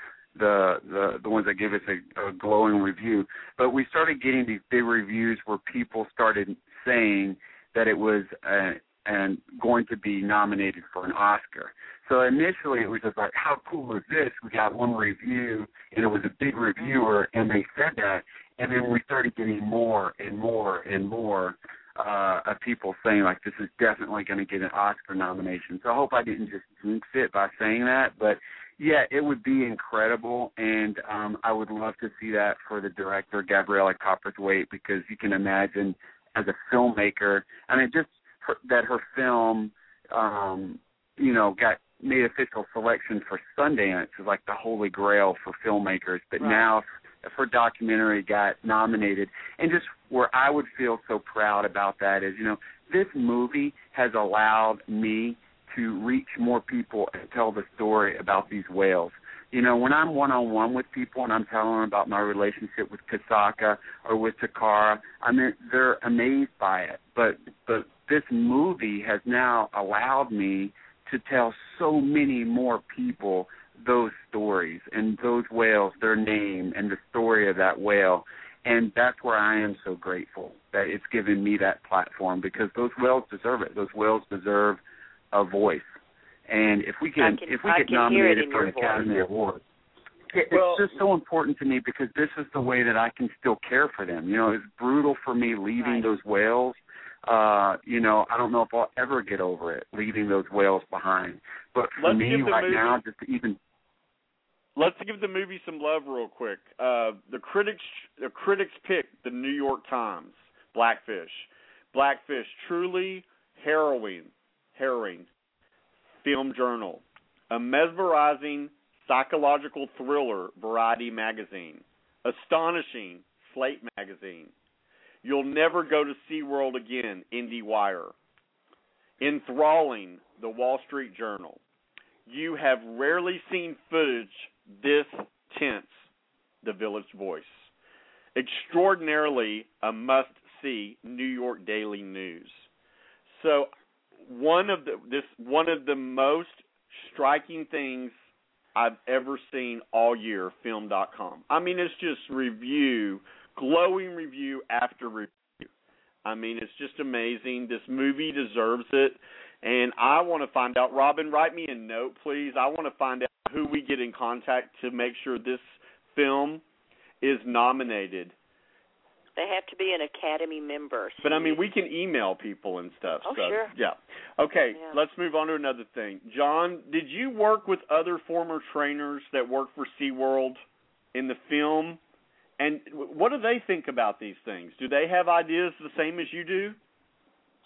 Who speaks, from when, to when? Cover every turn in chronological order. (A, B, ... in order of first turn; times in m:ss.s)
0:00.3-1:24.8 A
0:46.4-0:46.6 B
1:25.3-1:25.9 A
1:26.5-1:29.6 A
1:27.2-1:29.0 B
1:30.3-1:43.6 A
1:35.8-1:36.1 B
1:42.0-1:43.0 C
1:44.8-1:55.3 C
1:56.2-2:04.5 C
2:05.2-2:08.1 C
2:09.2-2:11.6 C
2:12.3-2:16.0 C
2:16.6-2:17.7 C
2:18.3-2:22.7 C
2:23.3-2:23.7 C
2:24.2-2:28.1 C
2:28.8-2:35.7 C
2:36.2-2:46.6 C
2:47.2-2:48.3 C
2:49.4-2:51.6 B
2:51.2-3:00.6 C
2:53.2-2:53.7 B
3:01.1-3:02.0 C
3:02.6-3:06.8 C